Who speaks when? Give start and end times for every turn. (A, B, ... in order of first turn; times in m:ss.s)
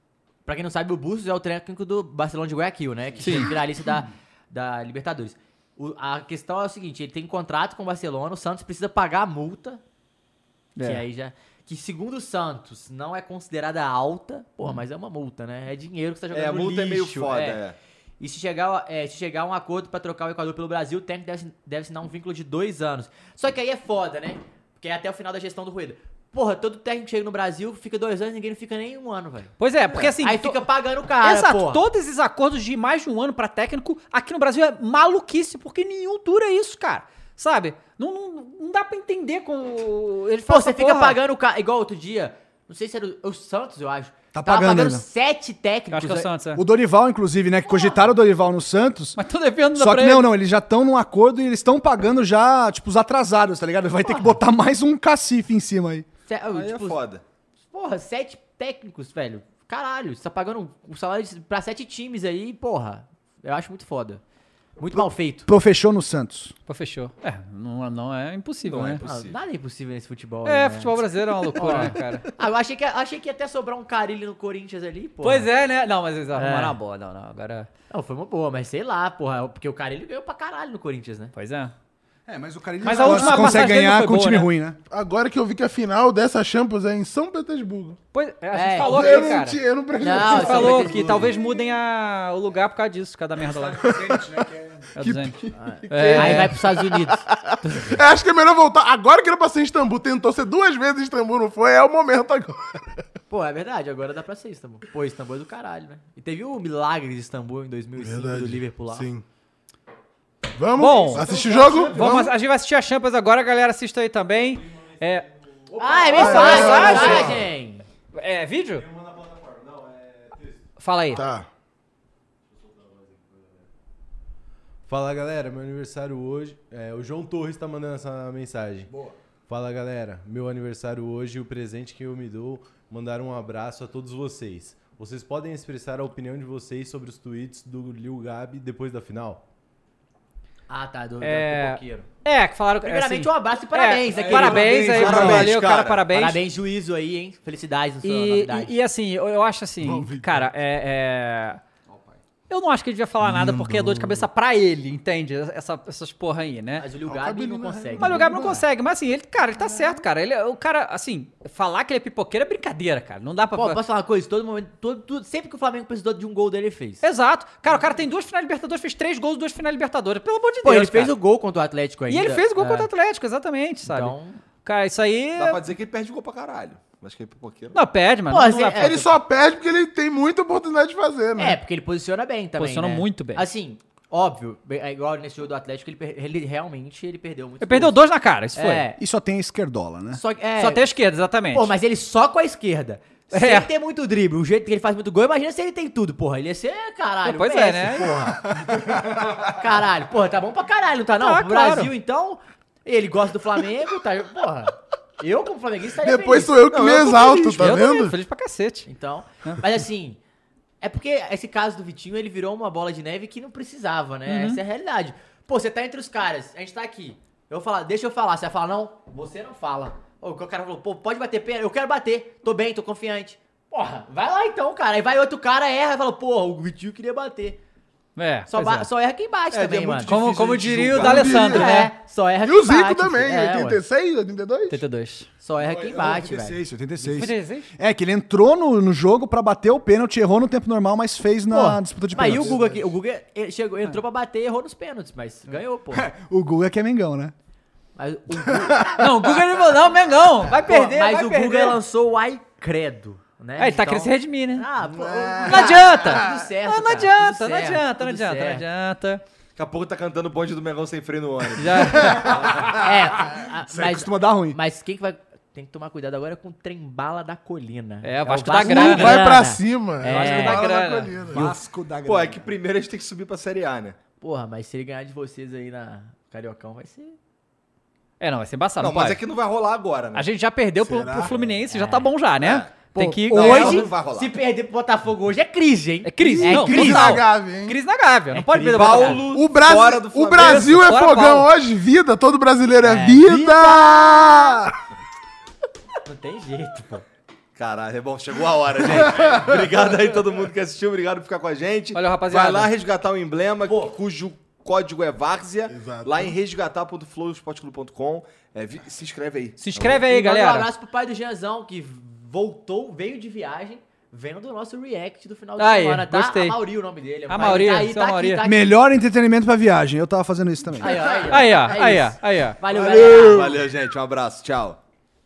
0:00.4-0:09.8 A
0:03.2-0:03.5 B
0:10.8-0:11.0 B
0:10.8-0:17.6 A
0:16.3-0:17.8 C
0:18.2-0:31.8 A
0:29.6-0:30.6 B
0:31.2-0:41.2 B
0:40.5-0:46.3 A
0:44.3-0:45.0 D
0:45.9-0:46.6 B
0:46.6-0:49.2 D
0:49.2-0:50.3 B
0:49.7-0:56.0 D
0:54.0-0:54.3 A
0:56.3-0:57.0 A
0:56.5-0:57.2 C
0:57.7-1:04.2 A
1:04.8-1:05.5 A
1:04.9-1:06.5 D
1:06.7-1:09.0 B
1:08.6-1:09.4 C
1:09.0-1:15.5 A
1:10.4-1:12.3 B
1:15.2-1:17.7 B
1:16.3-1:16.8 A
1:17.9-1:21.3 A
1:21.3-1:21.7 B
1:22.3-1:24.8 D
1:22.8-1:24.5 B
1:23.0-1:23.5 A
1:24.9-1:28.0 E
1:28.1-1:29.6 B
1:28.5-1:29.2 A
1:28.8-1:31.6 E
1:30.0-1:31.2 A
1:30.2-1:33.9 B
1:33.5-1:36.6 D
1:35.0-1:35.4 B
1:35.6-1:38.0 A
1:35.9-1:36.6 B
1:37.8-1:42.8 E
1:43.3-1:49.1 A
1:48.0-1:49.2 E
1:50.5-1:52.3 E
1:50.7-1:51.2 B
1:51.1-1:52.3 D
1:51.9-1:55.3 B
1:55.7-1:56.1 F
1:55.8-1:57.8 A
1:56.1-1:57.4 E
1:56.1-1:57.4 B
1:58.1-1:58.8 B
1:58.7-2:00.6 F
2:00.8-2:01.2 B
2:01.1-2:01.5 E
2:02.5-2:03.6 F
2:04.8-2:08.9 F
2:09.5-2:19.4 F
2:20.7-2:22.1 A
2:21.2-2:26.4 B
2:22.8-2:25.5 A
2:24.1-2:25.3 D
2:24.3-2:26.0 C
2:26.1-2:28.7 A
2:28.0-2:31.6 B
2:29.8-2:30.4 E
2:32.5-2:36.8 B
2:33.2-2:34.2 E
2:36.8-2:38.5 A
2:37.0-2:38.6 E
2:38.0-2:43.8 B
2:43.5-2:47.0 A
2:47.0-2:51.1 B
2:50.6-2:52.9 A
2:52.1-2:55.6 B
2:53.9-2:54.4 A
2:55.4-2:57.8 C
2:57.7-2:59.1 B
2:58.3-2:59.0 A
2:58.8-3:01.6 E
3:01.4-3:08.0 A
3:02.6-3:03.5 B
3:07.6-3:08.9 B
3:08.5-3:09.0 A
3:09.0-3:10.2 D
3:10.1-3:10.8 A
3:10.6-3:11.7 B
3:11.5-3:18.5 A
3:13.3-3:13.7 B
3:17.2-3:18.2 B
3:18.7-3:19.2 E
3:19.3-3:26.6 A
3:21.2-3:21.9 B
3:26.0-3:28.2 E
3:26.7-3:27.8 C
3:27.6-3:28.9 B
3:28.8-3:30.2 A
3:30.8-3:47.6 A
3:34.3-3:34.6 B
3:48.2-3:48.9 B
3:48.5-3:50.1 A
3:49.5-3:51.5 C
3:50.1-3:51.9 B
3:51.0-3:51.7 E
3:51.0-3:53.8 A
3:52.4-3:54.8 E
3:54.7-3:55.3 B
3:55.4-3:56.6 A
3:55.6-4:02.8 D
3:57.0-3:57.7 B
4:01.5-4:06.1 A
4:05.9-4:07.3 D
4:08.0-4:09.0 A
4:08.6-4:09.1 D
4:09.0-4:11.8 B
4:10.6-4:18.6 A
4:13.6-4:14.7 B
4:14.9-4:16.3 E
4:15.5-4:19.2 B
4:19.6-4:22.6 C
4:21.6-4:22.6 B
4:22.8-4:30.6 A
4:23.7-4:24.6 D
4:28.0-4:29.2 B
4:28.6-4:31.5 E
4:30.1-4:31.1 B
4:31.3-4:32.5 D
4:32.0-4:34.0 C
4:34.2-4:37.2 A
4:38.2-4:39.2 B
4:38.8-4:40.2 C
4:40.1-4:43.9 B
4:40.8-4:41.4 E
4:41.7-4:42.1 A
4:42.4-4:42.7 C
4:42.9-4:47.2 A
4:43.3-4:44.4 C
4:46.0-4:49.3 B
4:46.2-4:47.8 E
4:48.3-4:49.2 A
4:48.7-4:50.8 C
4:49.3-4:54.7 E
4:50.3-4:51.5 B
4:52.8-4:54.5 A
4:56.0-4:57.0 A
4:57.6-5:10.0 C
5:01.9-5:02.7 B
5:03.6-5:04.0 A
5:05.7-5:06.3 E
5:09.6-5:10.7 B
5:10.0-5:18.7 A
5:15.6-5:16.6 B
5:17.3-5:18.4 B
5:18.4-5:21.1 D
5:20.8-5:23.6 A
5:21.3-5:22.6 B
5:22.6-5:24.8 C